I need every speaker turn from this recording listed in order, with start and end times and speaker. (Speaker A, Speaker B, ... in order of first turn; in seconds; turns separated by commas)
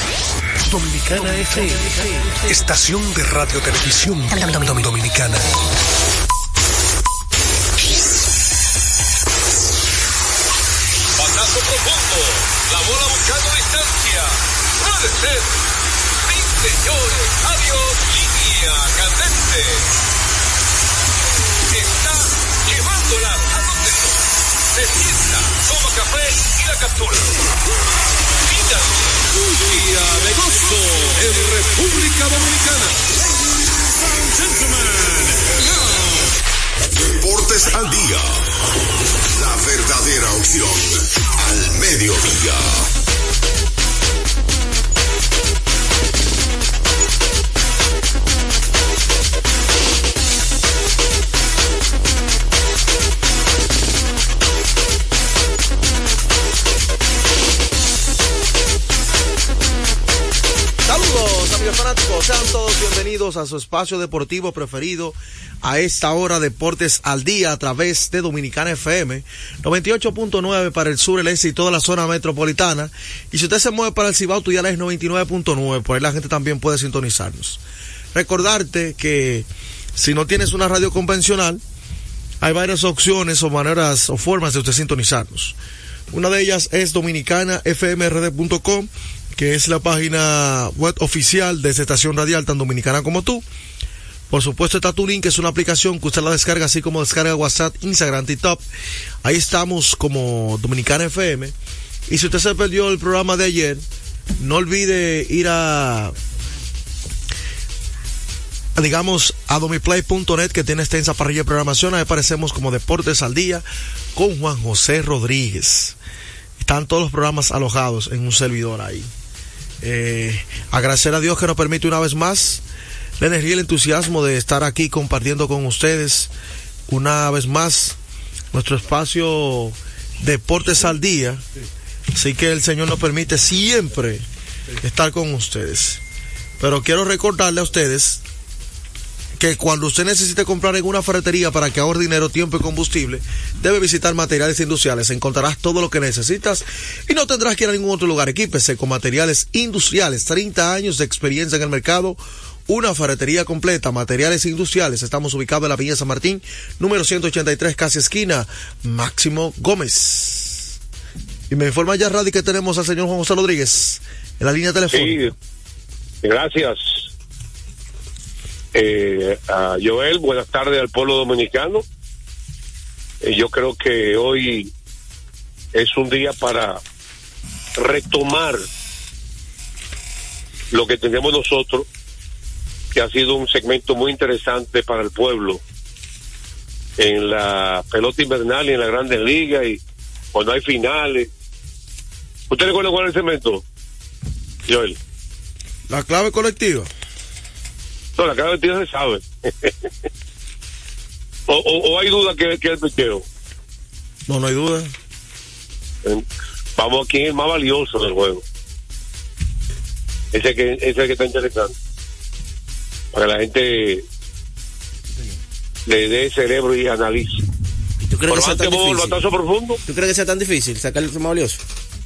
Speaker A: 0.6-5.5, Speaker B: 11.2-14.3, Speaker B: 14.8-15.5, Speaker B: 16.3-19.8, Speaker B: 21.7-24.1, Speaker B: 24.8-26.5, Speaker C: 26.6-27.2, Speaker B: 29.5-33.0, Speaker B: 34.6-35.4, Speaker D: 36.9-38.5, Speaker D: 39.3-42.9, Speaker E: 60.9-77.6, Speaker E: 78.1-81.6, Speaker E: 82.4-85.6, Speaker E: 86.1-93.5, Speaker E: 94.3-98.6, Speaker E: 99.2-101.5, Speaker E: 102.1-103.8, Speaker E: 104.4-106.1, Speaker E: 108.8-113.6, Speaker E: 114.2-116.0, Speaker E: 116.6-119.1, Speaker E: 119.8-122.6, Speaker E: 123.2-126.3, Speaker E: 126.9-128.0, Speaker E: 128.5-131.4, Speaker E: 132.1-134.2, Speaker E: 134.8-136.0, Speaker E: 136.6-138.2, Speaker E: 139.4-160.8, Speaker E: 161.5-165.2, Speaker C: 164.9-165.3, Speaker C: 166.2-167.1, Speaker C: 168.7-171.8, Speaker C: 173.2-174.7, Speaker C: 175.7-176.8, Speaker C: 177.8-178.7, Speaker C: 180.7-181.9, Speaker C: 182.9-185.6, Speaker C: 187.0-189.8, Speaker C: 190.3-191.3, Speaker C: 192.5-193.6, Speaker C: 194.7-195.0, Speaker E: 195.9-196.9, Speaker C: 198.2-199.9, Speaker C: 201.5-203.2, Speaker E: 204.3-204.9, Speaker C: 206.8-208.4, Speaker C: 210.3-211.7, Speaker C: 213.1-214.0, Speaker C: 215.9-217.4, Speaker F: 218.0-219.2, Speaker C: 218.3-219.8, Speaker F: 219.9-221.6